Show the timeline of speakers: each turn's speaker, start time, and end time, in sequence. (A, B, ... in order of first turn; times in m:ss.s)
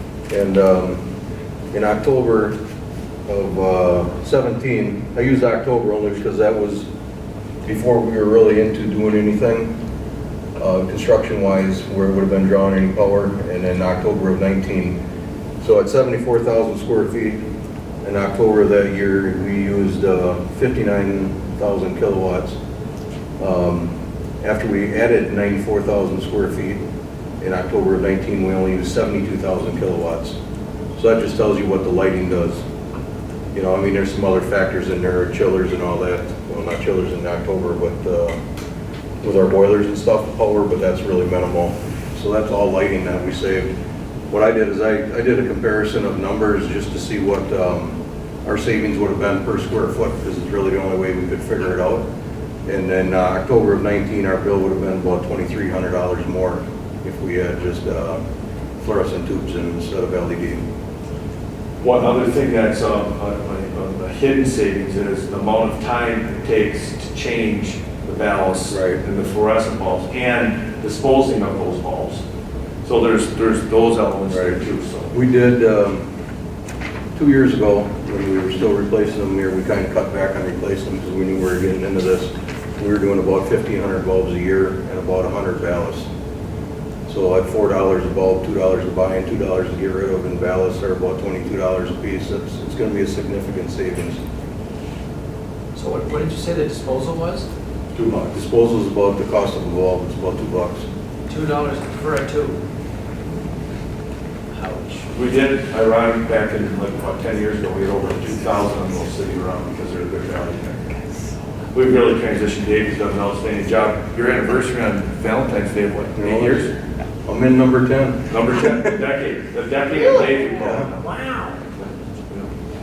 0:00.3-0:01.0 A
0:01.7-0:02.6 A
0:03.3-0:06.9 A
0:07.6-0:09.7 A
0:10.6-0:15.0 A
0:15.6-0:17.5 A
0:18.0-0:22.6 A
0:23.4-0:26.8 A
0:27.4-0:30.4 A
0:31.0-0:32.6 A
0:33.5-0:38.4 A
0:39.2-0:43.7 A
0:44.3-0:52.0 A
0:52.6-0:58.2 A
0:58.8-1:00.6 A
1:01.8-1:12.2 B
1:08.7-1:09.0 A
1:12.8-1:15.1 B
1:14.3-1:14.6 A
1:15.1-1:16.1 A
1:17.1-1:26.1 A
1:27.1-1:34.2 A
1:35.7-1:37.5 C
1:37.9-1:38.2 B
1:38.2-1:40.9 A
1:41.3-1:42.6 C
1:44.5-1:45.1 C
1:45.1-1:50.8 B
1:51.7-1:56.7 B
1:56.2-1:56.7 A
1:57.2-1:58.2 A
1:58.3-2:01.2 B
1:59.9-2:00.4 C
2:00.6-2:00.9 A
2:01.0-2:01.6 C
2:01.8-2:02.5 B